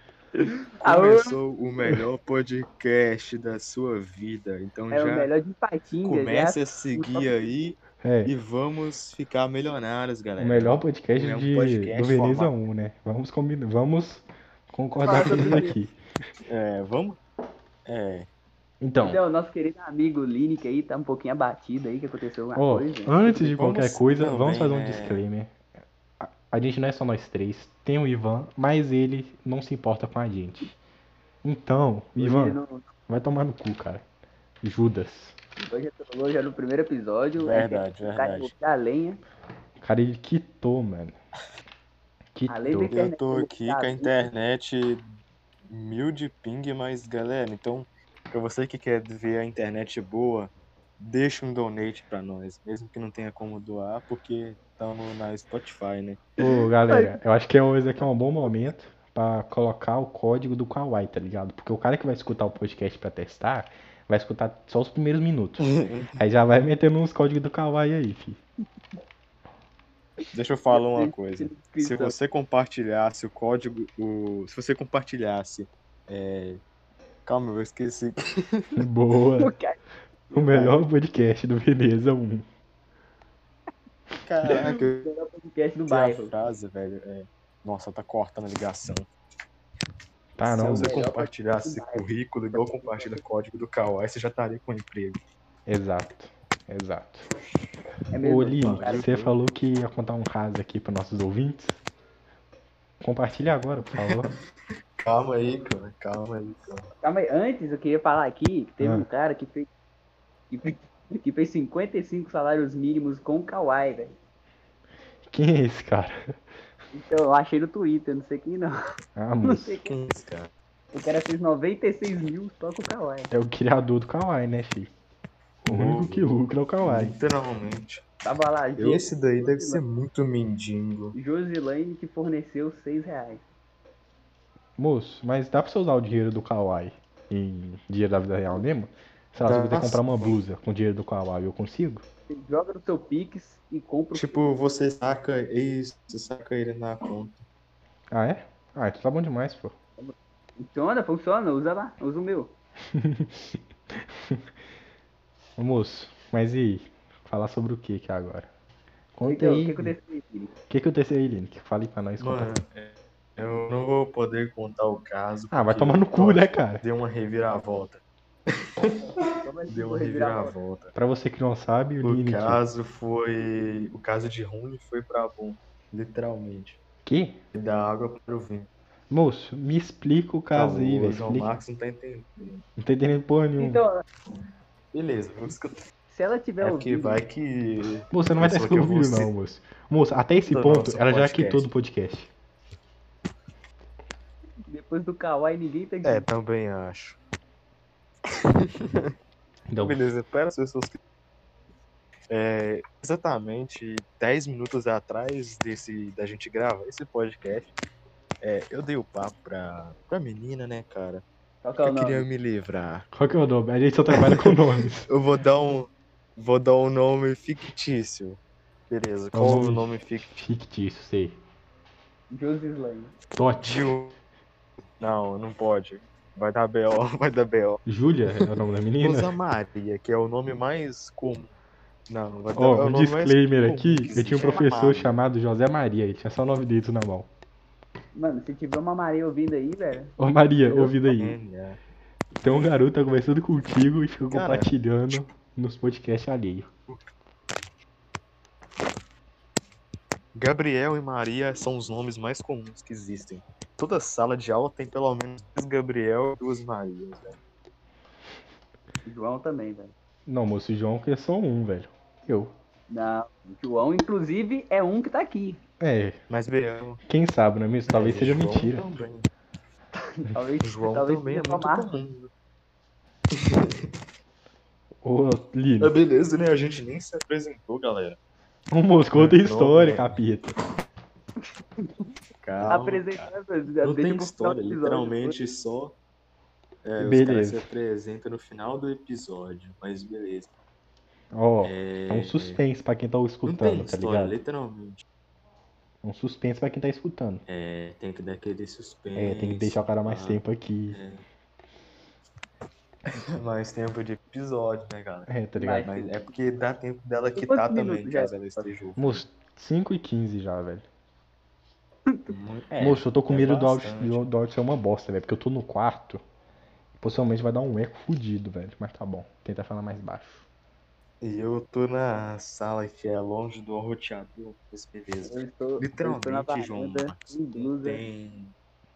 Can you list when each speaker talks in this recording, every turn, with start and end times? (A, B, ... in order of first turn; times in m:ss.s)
0:00.4-0:01.4 A
0:00.8-0:05.3 B
0:04.9-0:07.4 A
0:06.0-0:12.5 B
0:08.0-0:08.3 C
0:10.4-0:16.0 C
0:15.0-0:15.7 B
0:15.0-0:15.8 A
0:16.4-0:17.2 B
0:17.9-0:18.3 B
0:18.8-0:19.2 C
0:19.0-0:23.4 A
0:22.6-0:25.6 C
0:23.5-0:25.2 B
0:26.2-0:30.8 C
0:31.4-0:34.0 C
0:32.2-0:32.9 A
0:34.6-0:35.4 C
0:35.6-0:39.2 A
0:37.4-0:38.5 B
0:39.8-0:41.2 C
0:42.4-0:43.0 C
0:42.5-0:44.1 A
0:42.9-0:45.0 B
0:45.7-0:56.2 B
0:56.4-1:08.4 C
0:56.4-0:57.2 A
1:05.6-1:06.2 B
1:10.3-1:16.6 B
1:10.7-1:12.1 A
1:17.2-1:18.8 B
1:18.8-1:19.5 C
1:19.4-1:19.8 A
1:20.3-1:22.5 C
1:20.5-1:20.8 B
1:24.2-1:25.1 B
1:24.4-1:26.3 A
1:25.9-1:29.1 B
1:30.4-1:31.0 C
1:30.4-1:33.2 A
1:30.5-1:35.2 B
1:35.7-1:37.3 C
1:38.1-1:39.1 A
1:38.2-1:41.8 C
1:38.6-1:39.4 B
1:43.0-1:44.3 C
1:45.0-1:46.9 B
1:47.0-1:49.7 A
1:48.8-1:49.1 C
1:50.5-1:54.1 A
1:55.3-1:56.3 C
1:56.9-1:58.7 A
1:59.2-1:59.8 C
1:59.4-2:00.0 A
1:59.8-2:00.5 B
2:00.9-2:03.3 A
2:03.3-2:04.9 C
2:05.6-2:06.3 B
2:05.6-2:07.2 C
2:06.8-2:08.0 B
2:08.2-2:09.8 A
2:08.8-2:11.2 B
2:11.2-2:13.4 A
2:14.8-2:22.0 C
2:19.4-2:20.4 B
2:22.3-2:24.5 A
2:24.1-2:27.4 B
2:28.1-2:29.7 C
2:30.0-2:32.5 A
2:32.9-2:34.4 C
2:35.6-2:38.5 C
2:39.2-2:40.0 C
2:39.2-2:40.5 A
2:40.7-2:42.6 C
2:42.2-2:48.0 B
2:45.5-2:46.8 C
2:48.8-2:50.9 B
2:49.4-2:50.5 A
2:50.9-2:52.6 C
2:52.0-2:56.8 B
2:57.0-2:57.4 C
2:57.5-2:58.7 B
2:59.1-3:01.5 C
3:00.5-3:02.6 B
3:02.8-3:03.8 C
3:03.6-3:04.0 A
3:04.9-3:05.8 B
3:06.1-3:07.2 A
3:06.6-3:09.3 B
3:08.1-3:12.3 C
3:10.5-3:11.7 B
3:14.7-3:16.3 A
3:16.0-3:17.2 B
3:18.3-3:19.1 B
3:19.7-3:20.0 C
3:19.8-3:21.0 B
3:22.3-3:27.7 B
3:28.4-3:31.2 B
3:31.6-3:32.2 A
3:31.8-3:33.1 B
3:33.1-3:35.1 C
3:34.1-3:34.5 B
3:35.1-3:40.4 B
3:39.3-3:41.4 C
3:42.3-3:43.1 A
3:43.4-3:43.8 C
3:43.6-3:44.2 B
3:45.0-3:47.8 B
3:47.9-3:49.3 C
3:49.0-3:51.5 B
3:52.1-3:55.1 B
3:52.6-3:57.3 C
3:58.2-4:00.1 A
4:00.2-4:01.4 C
4:00.7-4:01.8 B
4:02.4-4:06.7 C
4:04.3-4:04.7 B
4:10.3-4:17.4 B
4:19.1-4:19.9 A
4:20.3-4:22.5 C
4:22.9-4:25.6 A
4:25.8-4:26.2 C
4:26.3-4:27.0 B
4:27.1-4:28.8 C
4:27.9-4:29.3 B
4:30.0-4:31.9 A
4:30.6-4:32.3 B
4:33.3-4:33.9 B
4:35.0-4:36.0 C
4:35.8-4:38.2 B
4:38.7-4:40.5 C
4:39.1-4:40.2 B
4:41.8-4:42.1 A
4:42.4-4:43.3 B
4:42.7-4:45.4 A
4:43.8-4:46.0 B
4:46.8-4:50.5 B
4:47.0-4:47.7 C
4:51.3-4:54.4 C
4:51.6-4:52.6 B
4:53.4-4:55.0 B
4:56.0-4:57.4 C
4:57.5-5:00.4 B
4:59.2-5:01.0 C
5:00.9-5:01.2 B
5:03.1-5:05.3 B
5:05.3-5:05.9 C
5:05.6-5:06.1 A
5:05.8-5:09.2 B
5:07.4-5:08.5 A
5:09.0-5:10.8 C
5:12.3-5:14.3 B
5:12.8-5:16.2 C
5:17.0-5:20.4 C
5:21.2-5:28.5 B
5:25.3-5:28.0 A